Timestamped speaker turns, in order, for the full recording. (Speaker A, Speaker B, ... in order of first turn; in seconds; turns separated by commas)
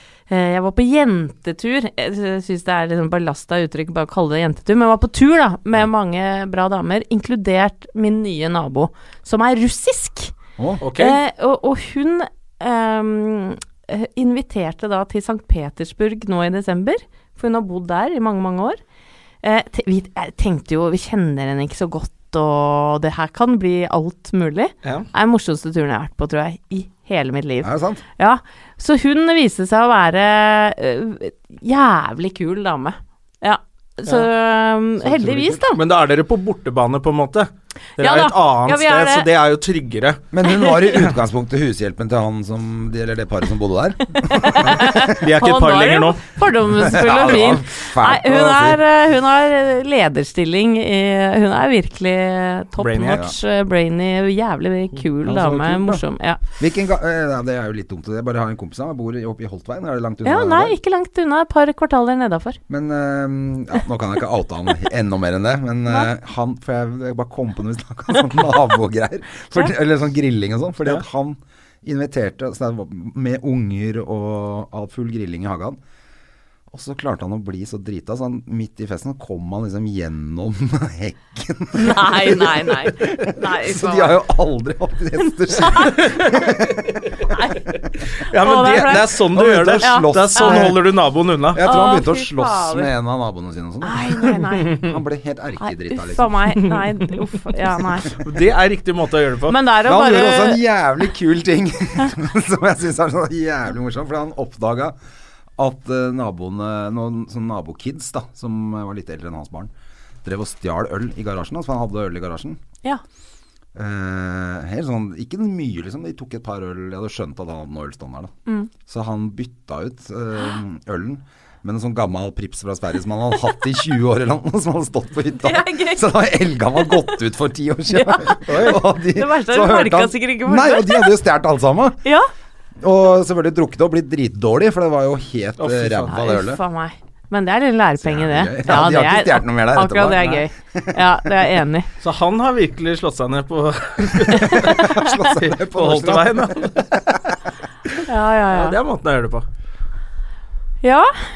Speaker A: 0.3-10.3, Speaker B: 10.8-11.2, Speaker A: 10.9-18.8, Speaker A: 19.4-35.8, Speaker B: 24.8-25.1, Speaker C: 27.6-28.0, Speaker C: 35.0-35.6, Speaker B: 35.7-40.2, Speaker A: 38.0-39.3, Speaker C: 40.3-45.0, Speaker B: 40.8-41.1, Speaker A: 44.2-56.4, Speaker B: 45.1-46.2, Speaker C: 46.7-48.8, Speaker B: 52.8-53.2, Speaker C: 55.2-56.0, Speaker C: 56.6-60.8, Speaker A: 60.2-62.6, Speaker C: 62.7-75.8, Speaker C: 76.7-87.1, Speaker A: 81.7-84.2, Speaker A: 85.6-86.0, Speaker B: 86.0-86.4, Speaker A: 87.3-87.7, Speaker B: 88.2-91.6, Speaker A: 88.3-89.2, Speaker C: 88.7-90.8, Speaker A: 89.8-90.7, Speaker C: 91.5-96.5, Speaker A: 91.6-92.9, Speaker A: 93.8-94.9, Speaker A: 95.6-98.2, Speaker B: 98.2-99.6, Speaker A: 99.5-100.6, Speaker C: 99.8-105.0, Speaker C: 105.6-109.7, Speaker C: 110.2-112.6, Speaker C: 113.8-118.3, Speaker C: 118.9-132.0, Speaker A: 125.4-126.1, Speaker A: 126.8-127.1, Speaker A: 127.9-131.2, Speaker B: 128.5-128.8, Speaker C: 132.8-136.6, Speaker B: 135.6-136.1, Speaker A: 136.1-141.9, Speaker C: 138.0-141.5, Speaker B: 142.0-144.8, Speaker A: 144.3-145.2, Speaker C: 144.4-147.4, Speaker B: 145.4-146.9, Speaker A: 148.1-148.8, Speaker B: 148.5-149.5, Speaker A: 150.8-151.1